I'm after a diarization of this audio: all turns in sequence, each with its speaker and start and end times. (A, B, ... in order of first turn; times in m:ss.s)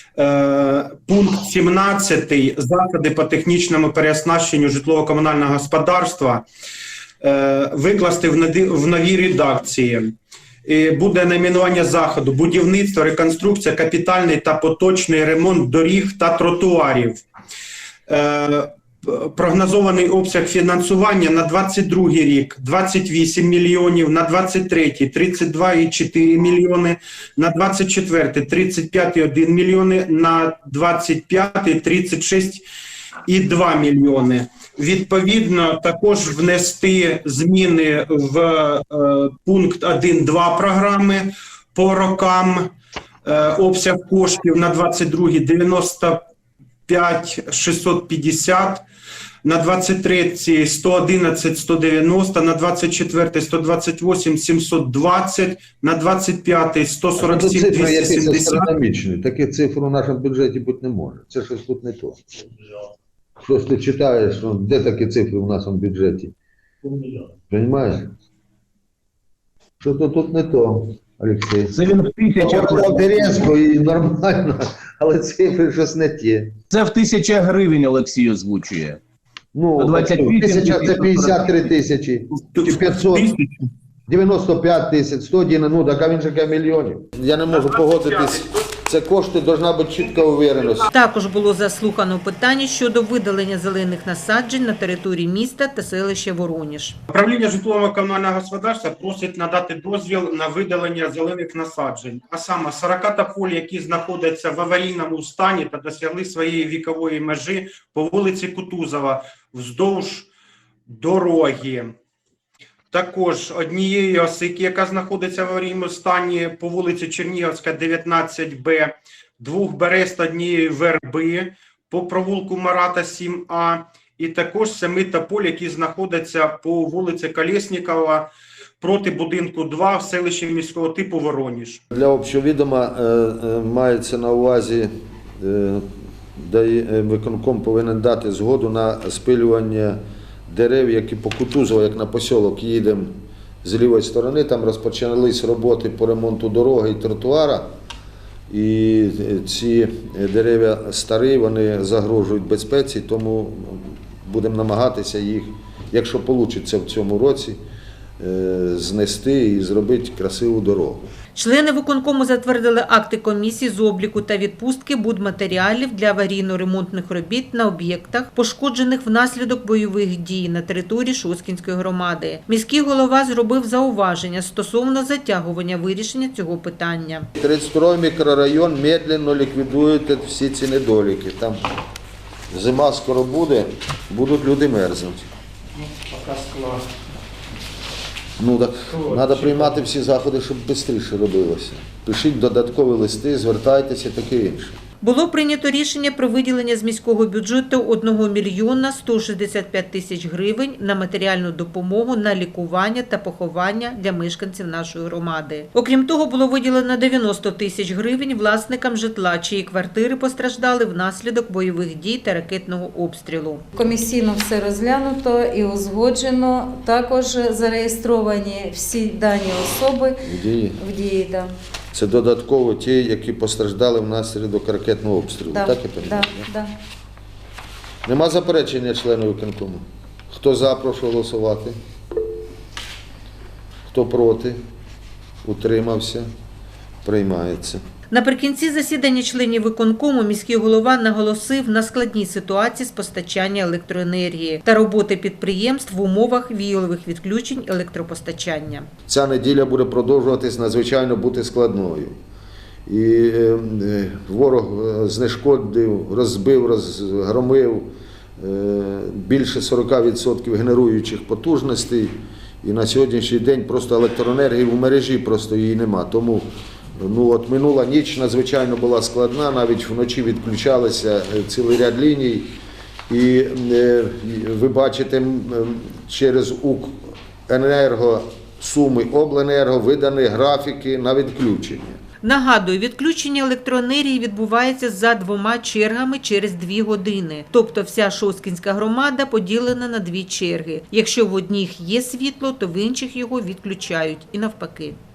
0:00.2-0:06.4 A
0:07.2-0:10.1 A
0:10.6-0:17.2 A
0:18.1-0:32.6 A
0:33.2-0:42.7 A
0:43.2-0:46.2 A
0:46.9-0:48.8 A
0:49.4-0:58.7 A
0:57.2-1:02.2 B
1:03.4-1:06.3 B
1:07.4-1:08.1 B
1:09.8-1:11.8 B
1:11.7-1:13.4 C
1:12.4-1:16.5 B
1:16.7-1:19.0 C
1:19.5-1:23.3 B
1:19.8-1:21.7 C
1:22.5-1:23.7 A
1:24.1-1:30.9 B
1:27.5-1:28.6 A
1:30.9-1:37.0 D
1:37.1-1:50.3 A
1:50.9-1:51.9 A
1:52.9-2:08.3 A
2:08.8-2:11.8 A
2:11.9-2:27.7 B
2:28.5-2:37.6 B
2:38.2-2:41.1 B
2:41.3-2:57.3 D
2:57.4-3:01.6 B
3:02.5-3:05.2 B
3:05.9-3:06.8 A
3:08.4-3:14.8 B
3:09.1-3:09.6 A
3:15.0-3:33.6 D
3:33.7-3:40.2 E
3:40.2-3:40.8 B
3:40.8-3:41.5 E
3:41.9-3:46.5 B
3:45.5-3:46.7 E
3:48.0-3:51.8 B
3:53.9-3:54.6 B
3:55.4-3:56.3 B
3:57.0-3:57.8 B
3:58.1-4:08.9 D
4:09.1-4:12.2 B
4:12.8-4:32.5 B
4:33.1-4:36.9 B
4:37.5-4:42.0 B
4:42.2-4:55.0 D